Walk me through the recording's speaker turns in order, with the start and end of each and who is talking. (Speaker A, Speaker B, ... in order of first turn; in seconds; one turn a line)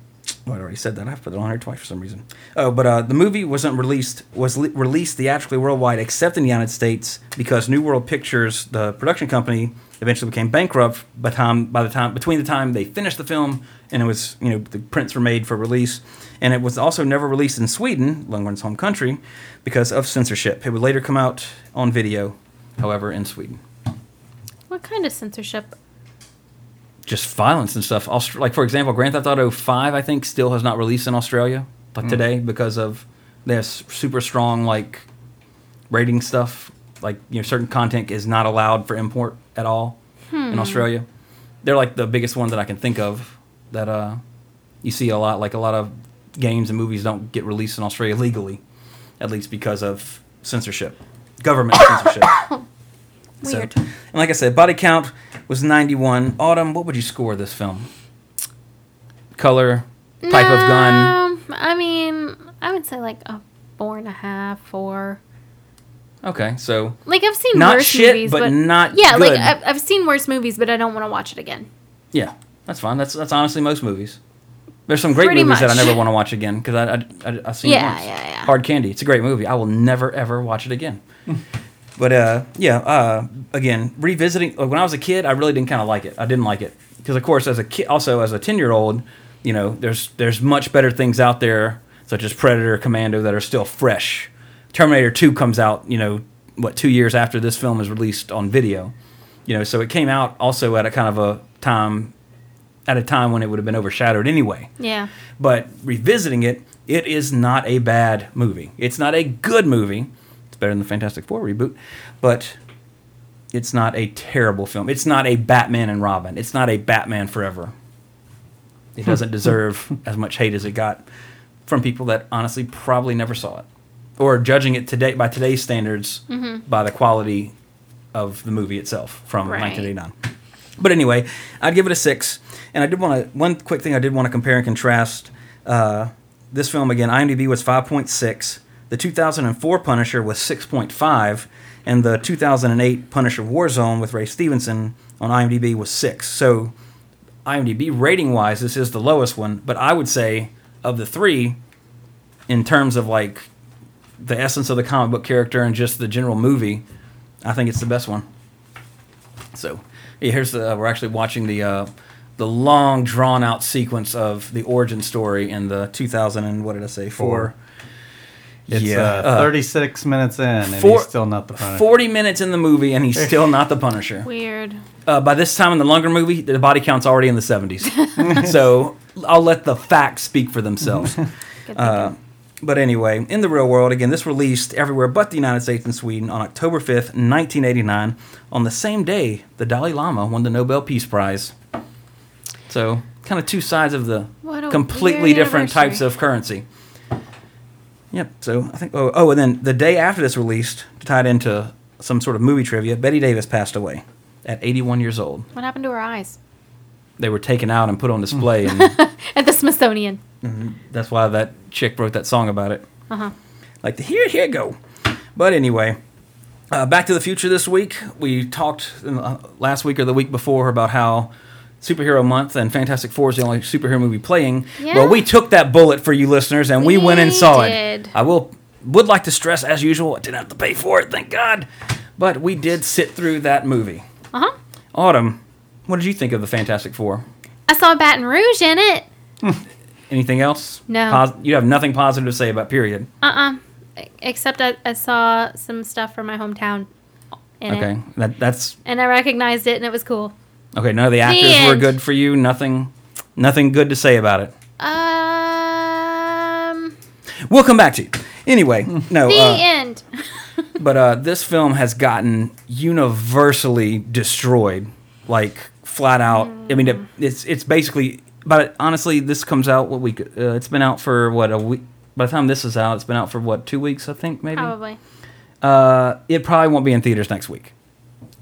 Speaker A: 0.5-23.6
Speaker B: 24.7-25.8
Speaker A: 27.1-35.0
Speaker A: 35.9-40.0
Speaker B: 40.3-40.9
Speaker A: 40.5-41.0
Speaker A: 41.6-44.2
Speaker A: 44.8-48.6
Speaker A: 49.2-52.5
Speaker B: 52.3-52.6
Speaker B: 53.4-53.8
Speaker A: 53.4-57.9
Speaker A: 59.4-61.1
Speaker B: 60.2-65.2
Speaker A: 66.2-67.0
Speaker B: 67.0-71.7
Speaker A: 67.5-69.5
Speaker A: 72.1-74.2
Speaker A: 74.9-81.0
Speaker B: 75.2-76.0
Speaker B: 77.6-78.5
Speaker A: 82.0-98.9
Speaker A: 99.5-102.1
Speaker A: 102.9-104.7
Speaker B: 104.8-105.1
Speaker A: 105.4-112.5
Speaker A: 113.5-117.7
Speaker A: 119.0-121.0
Speaker A: 121.7-123.6
Speaker A: 124.2-127.5
Speaker B: 126.3-126.6
Speaker A: 128.1-130.1
Speaker B: 129.4-129.9
Speaker A: 130.8-146.7
Speaker A: 147.4-151.6
Speaker A: 152.5-153.5
Speaker A: 154.2-156.8
Speaker A: 157.4-158.2
Speaker A: 159.5-167.5
Speaker C: 167.2-167.5
Speaker A: 168.7-169.6
Speaker C: 168.7-171.8
Speaker A: 170.7-174.2
Speaker B: 174.2-174.8
Speaker A: 175.1-191.5
Speaker B: 181.7-182.1
Speaker A: 192.7-196.6
Speaker B: 194.4-196.0
Speaker A: 198.1-205.5
Speaker B: 205.5-206.4
Speaker A: 207.2-208.9
Speaker B: 208.6-210.2
Speaker A: 210.4-212.8
Speaker A: 213.8-214.8
Speaker A: 215.3-216.0
Speaker A: 216.7-234.0
Speaker B: 224.8-225.2
Speaker B: 226.8-228.1
Speaker A: 234.9-237.2
Speaker B: 237.7-239.1
Speaker A: 240.1-243.1
Speaker B: 240.9-241.2
Speaker B: 243.2-246.9
Speaker B: 247.6-247.9
Speaker A: 247.7-248.8
Speaker B: 248.8-250.3
Speaker A: 250.7-254.5
Speaker B: 251.2-251.9
Speaker B: 254.8-256.9
Speaker A: 257.4-259.6
Speaker B: 259.2-260.0
Speaker A: 260.8-274.7
Speaker B: 266.3-267.0
Speaker B: 274.5-275.0
Speaker A: 275.6-277.7